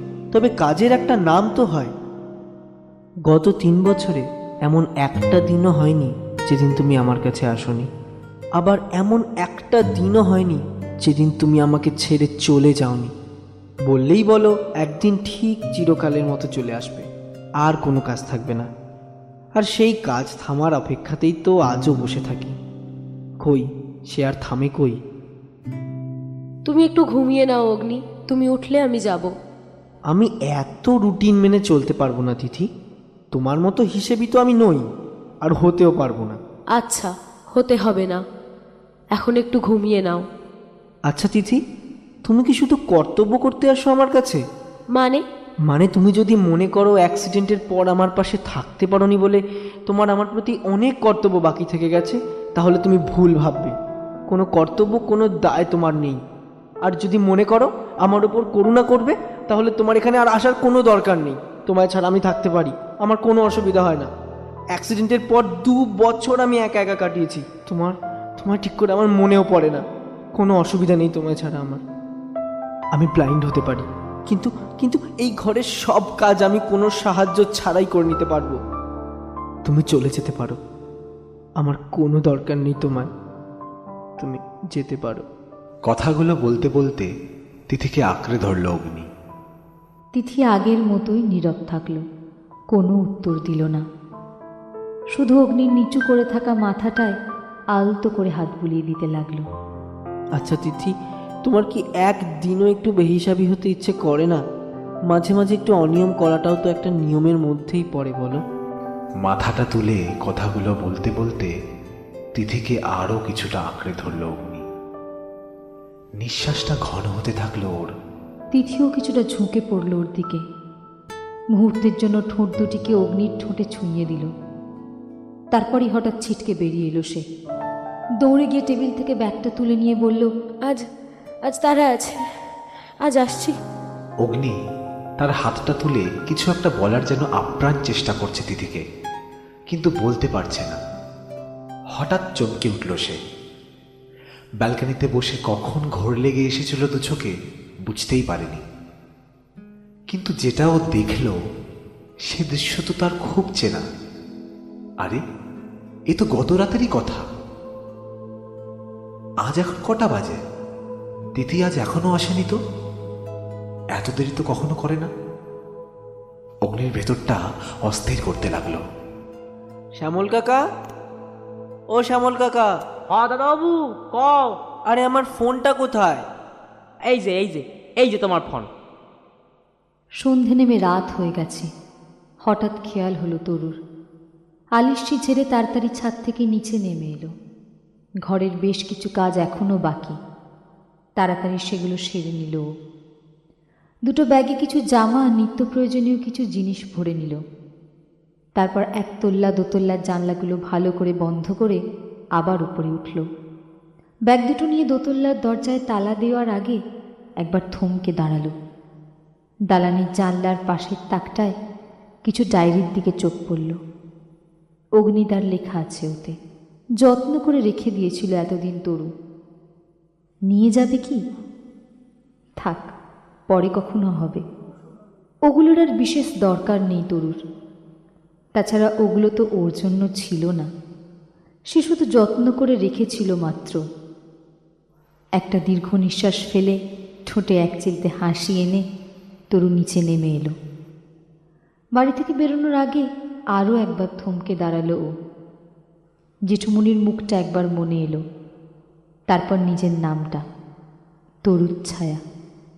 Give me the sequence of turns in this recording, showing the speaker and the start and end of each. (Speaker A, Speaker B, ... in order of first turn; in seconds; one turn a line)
Speaker A: 0.3-1.9
Speaker A: 3.3-7.9
Speaker A: 8.6-13.1
Speaker A: 13.9-17.1
Speaker A: 17.6-18.7
Speaker A: 19.6-22.6
Speaker A: 23.4-25.0
Speaker B: 26.7-29.3
Speaker A: 30.1-32.7
Speaker A: 33.3-34.9
Speaker A: 35.5-36.4
Speaker B: 36.8-38.2
Speaker B: 39.2-40.2
Speaker A: 41.1-41.6
Speaker A: 42.3-44.4
Speaker B: 45.0-45.2
Speaker A: 45.7-53.8
Speaker A: 54.3-56.2
Speaker A: 56.9-64.1
Speaker A: 64.8-69.8
Speaker A: 70.4-71.8
Speaker A: 73.0-78.6
Speaker A: 79.7-80.6
Speaker A: 81.6-83.1
Speaker A: 84.2-85.2
Speaker C: 85.9-87.1
Speaker C: 87.7-89.1
Speaker D: 90.2-92.0
Speaker D: 92.7-93.8
Speaker D: 95.2-97.2
Speaker D: 97.8-99.5
Speaker A: 100.4-100.9
Speaker A: 101.4-104.4
Speaker A: 105.1-108.4
Speaker C: 109.2-111.5
Speaker C: 112.4-114.7
Speaker C: 116.2-117.9
Speaker D: 118.5-120.4
Speaker D: 121.5-124.3
Speaker D: 125.5-127.2
Speaker D: 128.2-130.3
Speaker B: 131.5-132.2
Speaker B: 133.1-133.6
Speaker C: 134.2-134.6
Speaker C: 135.2-138.8
Speaker C: 139.7-140.8
Speaker C: 142.0-143.2
Speaker C: 144.6-147.3
Speaker C: 147.9-148.6
Speaker C: 150.1-151.3
Speaker C: 152.3-153.8
Speaker C: 156.1-157.2
Speaker C: 159.5-160.4
Speaker C: 161.4-162.6
Speaker C: 163.9-165.1
Speaker C: 166.7-168.8
Speaker A: 170.0-170.6
Speaker A: 171.9-172.7
Speaker E: 173.1-174.6
Speaker A: 174.9-176.2
Speaker E: 177.1-178.7
Speaker D: 180.2-181.7
Speaker D: 182.5-183.8
Speaker D: 184.8-187.3
Speaker D: 188.3-190.2
Speaker D: 191.2-192.7
Speaker D: 194.1-197.4
Speaker D: 198.6-201.8
Speaker D: 202.4-203.2
Speaker D: 204.3-206.8
Speaker D: 207.4-208.5
Speaker D: 209.7-211.6
Speaker D: 212.3-213.8
Speaker D: 215.0-216.3
Speaker D: 217.0-219.1
Speaker D: 220.5-221.2
Speaker D: 222.6-222.9
Speaker D: 223.5-224.4
Speaker D: 225.5-227.4
Speaker D: 228.6-230.7
Speaker D: 231.7-233.8
Speaker D: 235.4-238.8
Speaker D: 239.5-240.5
Speaker D: 242.0-245.1
Speaker D: 246.5-248.2
Speaker D: 249.3-250.4
Speaker D: 251.5-252.2